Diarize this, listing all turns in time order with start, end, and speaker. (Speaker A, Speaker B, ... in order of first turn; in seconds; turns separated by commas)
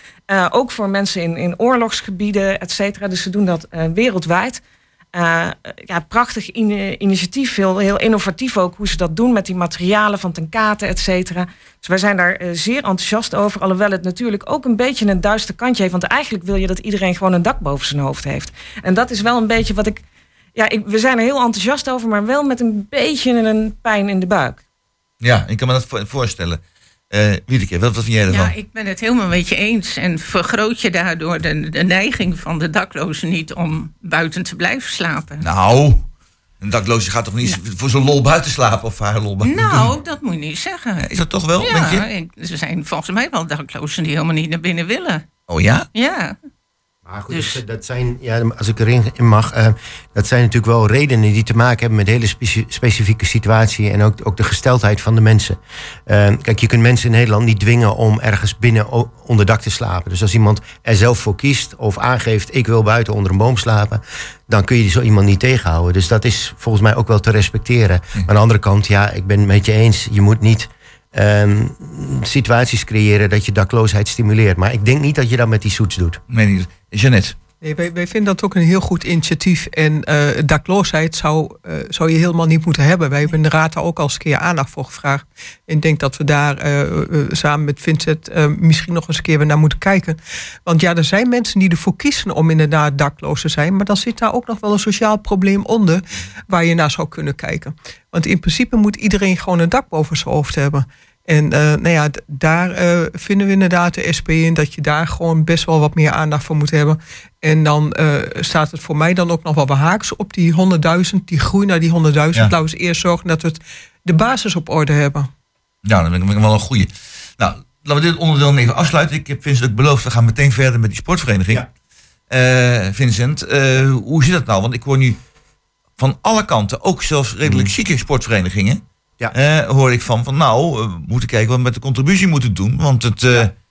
Speaker A: 0.3-4.6, Speaker A: 5.2-20.0, Speaker A: 20.6-24.6, Speaker B: 25.2-28.5, Speaker C: 28.3-35.5, Speaker B: 35.4-36.1, Speaker B: 36.6-39.9, Speaker C: 39.4-41.1, Speaker B: 41.0-42.1, Speaker C: 41.6-45.2, Speaker B: 45.5-45.9, Speaker C: 46.0-46.4, Speaker D: 47.1-76.2, Speaker C: 47.3-47.6, Speaker B: 76.3-77.4, Speaker E: 77.6-115.3, Speaker B: 115.8-121.7, Speaker B: 122.3-125.2, Speaker B: 126.0-133.5, Speaker D: 127.5-127.7